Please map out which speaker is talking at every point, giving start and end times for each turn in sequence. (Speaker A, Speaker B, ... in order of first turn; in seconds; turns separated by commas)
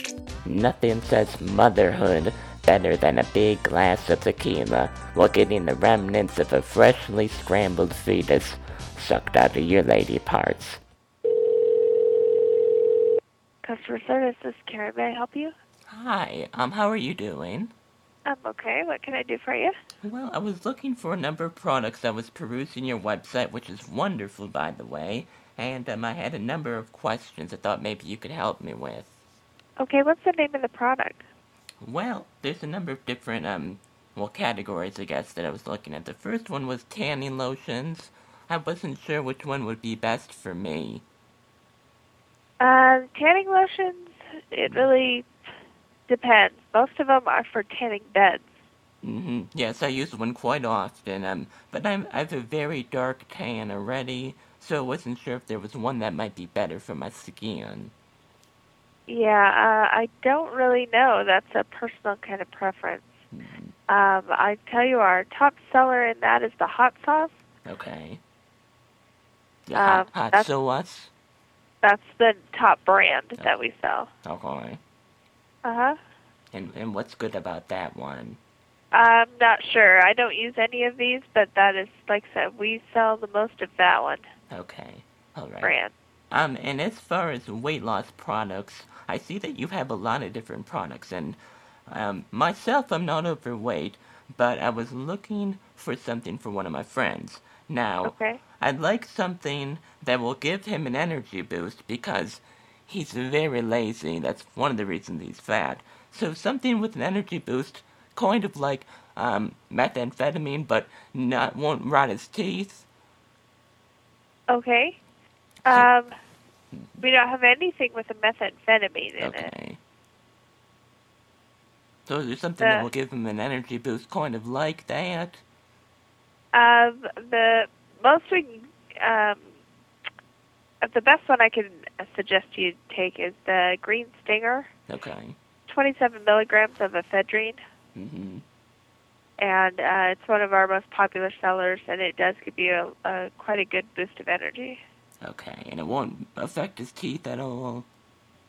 Speaker A: 0.4-10.8, Speaker B: 13.6-15.5, Speaker A: 15.9-17.7, Speaker B: 18.2-19.7, Speaker A: 20.0-29.1, Speaker B: 29.8-31.2, Speaker A: 31.8-41.0, Speaker B: 42.6-45.3, Speaker B: 46.1-48.5, Speaker A: 49.0-57.9, Speaker B: 59.1-63.1, Speaker A: 63.3-63.7, Speaker B: 63.9-67.3, Speaker A: 67.7-68.2, Speaker A: 69.7-71.1, Speaker B: 69.7-70.5, Speaker B: 71.8-74.1, Speaker A: 74.2-74.8, Speaker B: 75.6-76.0, Speaker A: 76.5-78.4, Speaker B: 78.9-84.2, Speaker A: 84.5-85.7, Speaker B: 85.6-85.9, Speaker A: 86.3-112.9, Speaker B: 98.0-98.4, Speaker B: 114.5-115.0, Speaker B: 115.7-116.1, Speaker B: 117.0-119.5, Speaker A: 119.2-119.8, Speaker A: 122.0-125.4, Speaker B: 122.6-122.9, Speaker B: 126.5-129.4, Speaker B: 130.8-134.7, Speaker A: 134.9-135.3, Speaker B: 135.7-137.6, Speaker A: 137.9-138.4, Speaker B: 139.4-144.8, Speaker A: 145.2-147.9